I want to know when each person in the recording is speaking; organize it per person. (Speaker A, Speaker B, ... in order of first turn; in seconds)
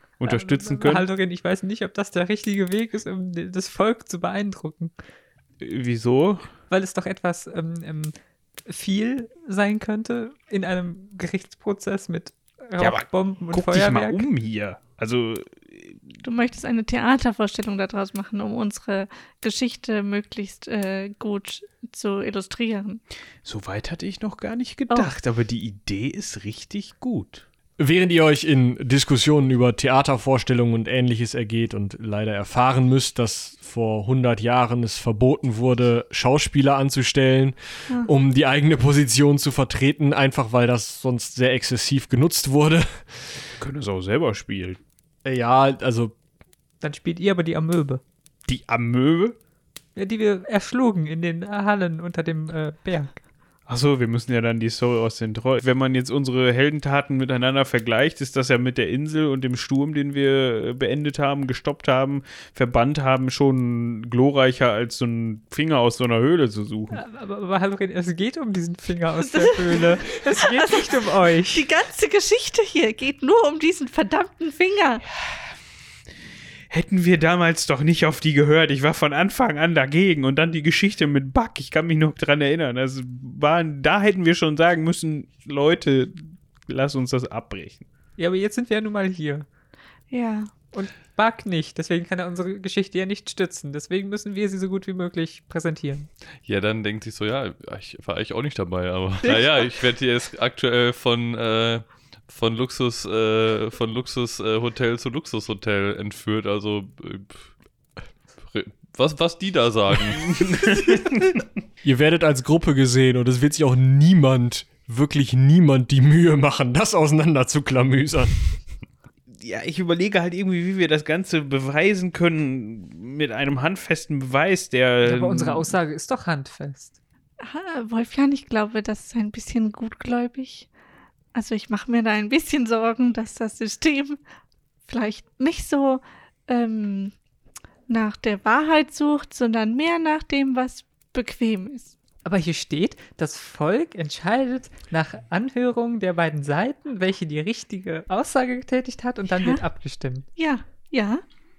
Speaker A: 0.2-1.1, 5.6-6.5, 12.8-16.2, 23.4-27.4, 43.6-44.8, 48.5-49.4, 53.7-67.0, 75.2-75.4, 76.7-87.8, 110.2-111.4, 119.3-125.7
Speaker B: 0.2-4.9, 6.7-8.1, 8.7-14.2, 46.8-48.0, 50.0-53.1, 66.9-71.7, 88.2-89.5, 90.7-96.1, 125.0-127.0, 142.2-150.2
Speaker C: 16.2-23.0, 24.9-25.1, 69.2-75.0, 90.1-90.5, 127.4-130.7, 131.3-134.2, 134.9-137.1, 137.9-141.9, 150.3-151.2
Speaker D: 27.8-43.5, 45.2-46.1, 111.8-118.4
Speaker E: 96.4-107.5, 108.5-110.7